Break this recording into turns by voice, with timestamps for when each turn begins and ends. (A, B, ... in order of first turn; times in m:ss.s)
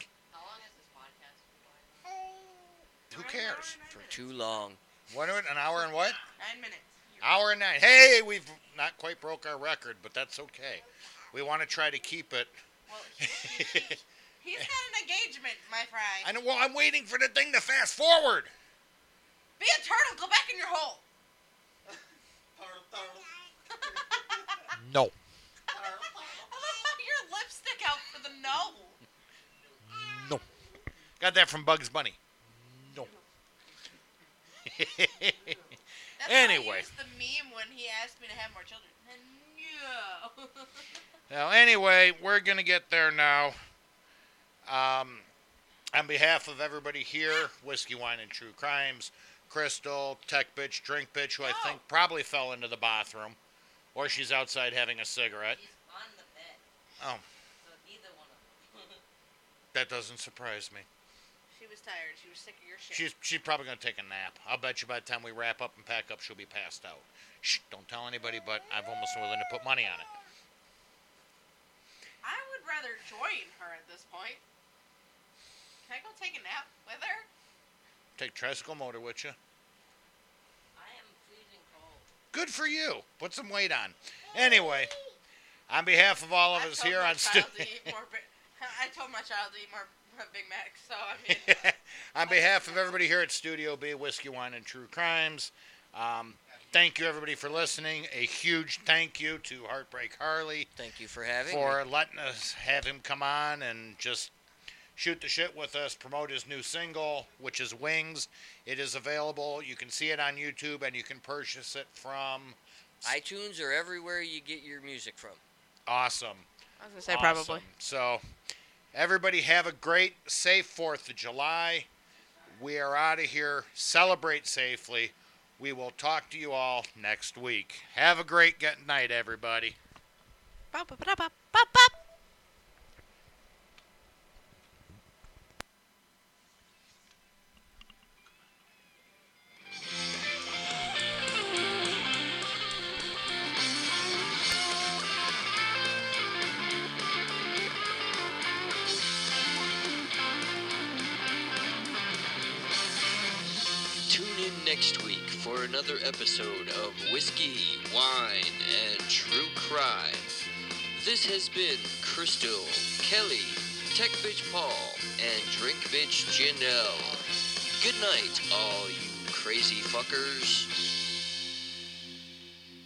0:00.3-0:02.2 A
0:03.1-0:03.8 B
0:03.1-0:04.4 C
0:03.9-0:04.8 D
0:05.1-0:06.2 B
0:06.4-0:07.3 C
0:07.2-0:12.5 B
0:12.9-0:16.3 C
0:13.2-0:14.0 B
0:16.2-0:18.5 B
0:19.6-0:21.0 C
0:22.5-0:24.7 E
0:23.7-0:24.2 C
0:24.7-0:25.1 B
0:25.7-0:26.5 E
0:25.7-0:29.0 C
0:29.9-0:30.4 B
0:31.2-0:33.1 B
0:34.6-0:35.6 B
0:36.2-0:40.8 C
0:36.2-0:36.9 B
0:41.3-0:43.6 B
0:44.6-0:45.2 B
0:45.9-0:53.4 B
0:51.4-0:51.8 C
0:53.9-0:55.6 B
0:55.5-0:56.6 A
0:57.6-0:59.0 A
0:59.7-1:00.8 B
1:01.5-1:03.1 C
1:02.9-1:10.1 B
1:12.2-1:14.4 C
1:15.8-1:17.3 C
1:18.2-1:19.4 B
1:20.7-1:22.1 A
1:22.3-1:24.9 B
1:25.7-1:27.9 B
1:26.5-1:31.6 C
1:31.3-1:40.7 B
1:32.2-1:33.0 C
1:40.8-1:41.8 D
1:41.4-1:44.3 B
1:45.0-1:53.2 B
1:53.0-1:55.4 D
1:55.8-1:56.5 B
1:56.8-1:57.6 C
1:57.1-1:58.2 B
1:58.9-2:01.9 B
2:02.5-2:09.8 B
2:10.7-2:11.9 C
2:34.1-2:40.3 F
2:40.9-2:47.2 F
2:46.7-2:48.4 A
2:47.7-2:50.7 F